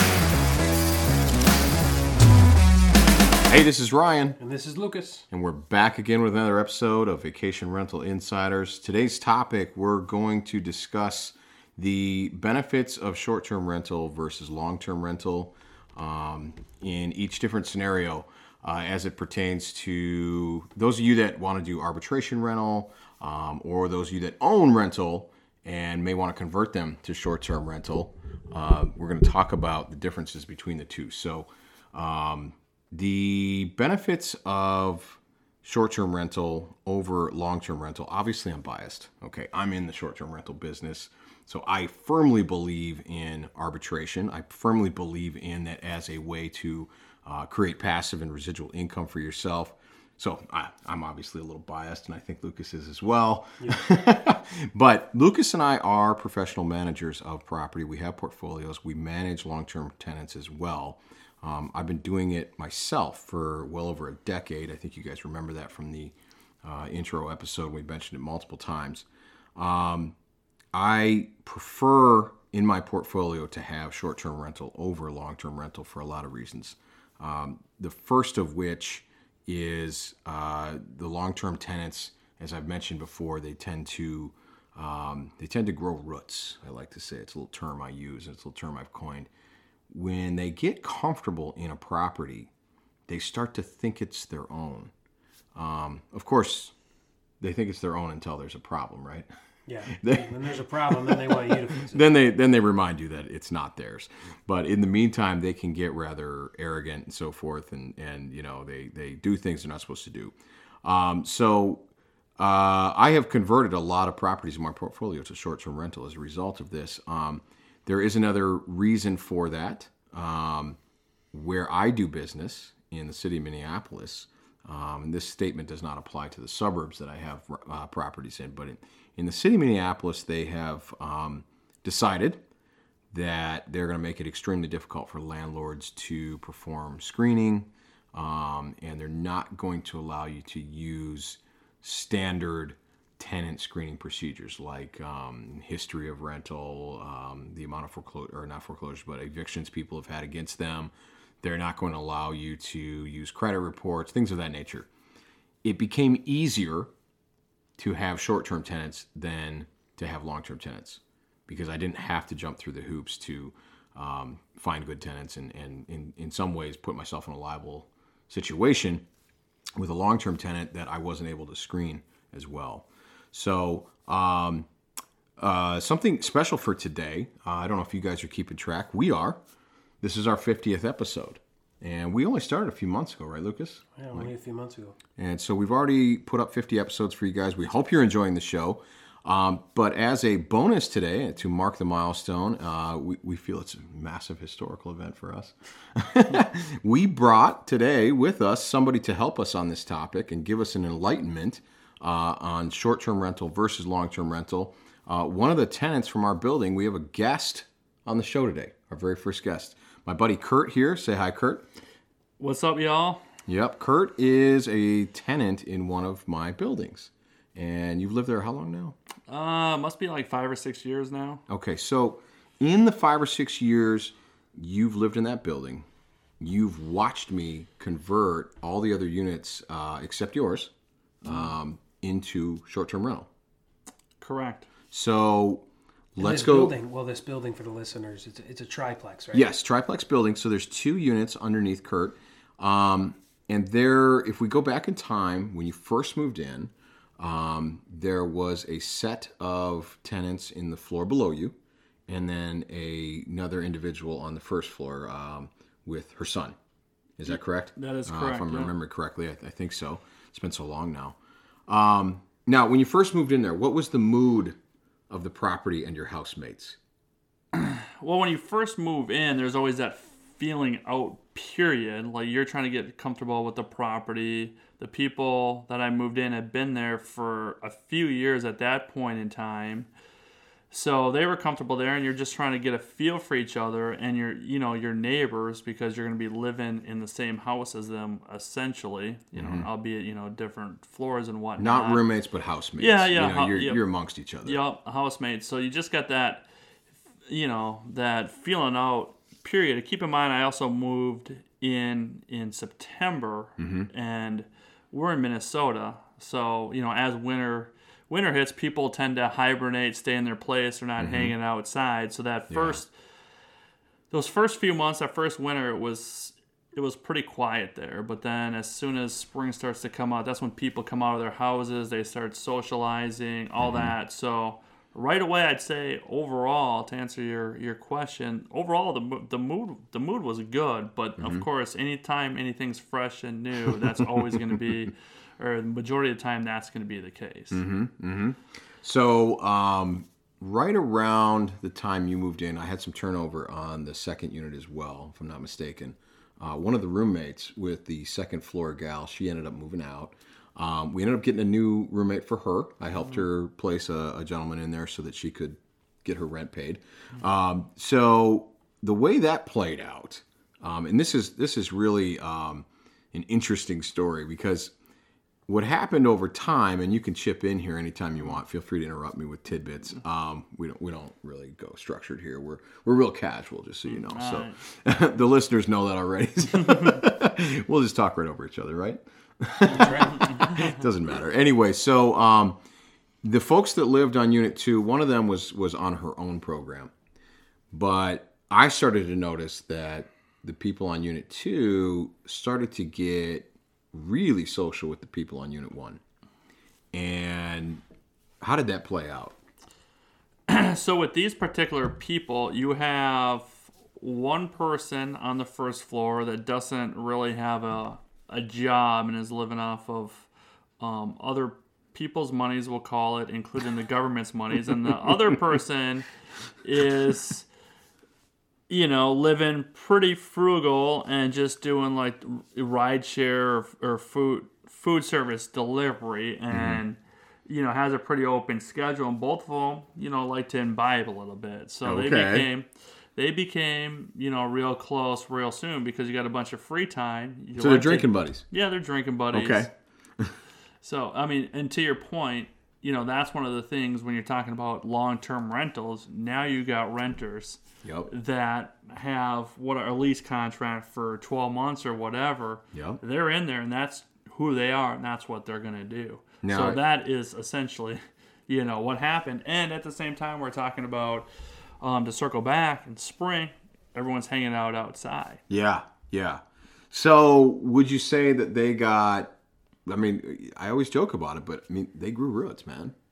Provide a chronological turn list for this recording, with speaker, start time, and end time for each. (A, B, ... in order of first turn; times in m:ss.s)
0:03.5-0:04.4 A
0:04.4-0:05.3 B
0:05.3-1:09.1 A
1:09.6-1:10.2 A
1:10.7-1:29.3 A
1:29.9-1:32.5 A
1:33.1-1:34.9 A
1:35.6-1:36.7 A
1:37.4-1:39.3 A
1:39.7-1:42.1 B
1:39.9-1:51.9 A
1:52.4-2:00.8 A
2:01.3-2:12.4 A
2:13.1-2:34.9 A
2:35.6-2:36.9 A
2:37.8-2:49.0 A
2:49.8-2:54.7 A
2:55.4-2:59.4 A
3:00.0-3:04.3 A
3:04.0-3:05.0 B
3:05.2-3:31.7 A
3:32.4-3:33.2 C
3:33.5-3:39.0 A
3:39.3-3:41.4 C
3:41.5-3:45.9 A
3:46.4-3:50.7 A
3:51.2-3:51.6 C
3:51.2-3:53.3 A
3:54.2-3:54.7 C
3:54.9-3:56.8 A
3:56.2-3:59.4 B
3:59.3-4:11.6 A
4:12.1-4:16.6 A
4:17.2-4:21.2 A
4:17.3-4:18.7 C
4:21.7-4:24.6 A
4:25.1-4:26.8 A
4:27.5-4:39.9 C
4:40.7-4:52.0 C
4:49.4-4:49.7 A
4:51.6-4:54.6 A
4:52.8-4:56.5 C
4:57.3-5:12.9 C
5:03.6-5:03.9 A
5:11.0-5:11.4 A
5:12.5-5:12.8 A
5:14.1-5:37.6 C
5:23.6-5:23.9 A
5:31.2-5:31.5 A
5:37.5-6:04.7 A
6:05.5-6:22.6 A
6:13.8-6:14.6 C
6:19.7-6:20.7 C
6:23.2-6:26.9 A
6:27.7-6:36.0 A
6:36.9-6:37.8 A
6:38.4-6:39.4 A
6:40.5-6:50.3 C
6:50.8-6:56.1 C
6:56.6-6:57.5 C
6:58.7-7:19.7 C
7:06.5-7:06.8 A
7:11.8-7:12.5 A
7:17.6-7:18.5 A
7:19.3-7:20.4 A
7:20.8-7:41.3 C
7:27.8-7:28.1 A
7:32.7-7:33.0 A
7:36.4-7:36.8 A
7:41.8-7:45.4 C
7:45.5-7:49.3 A
7:49.9-7:52.9 A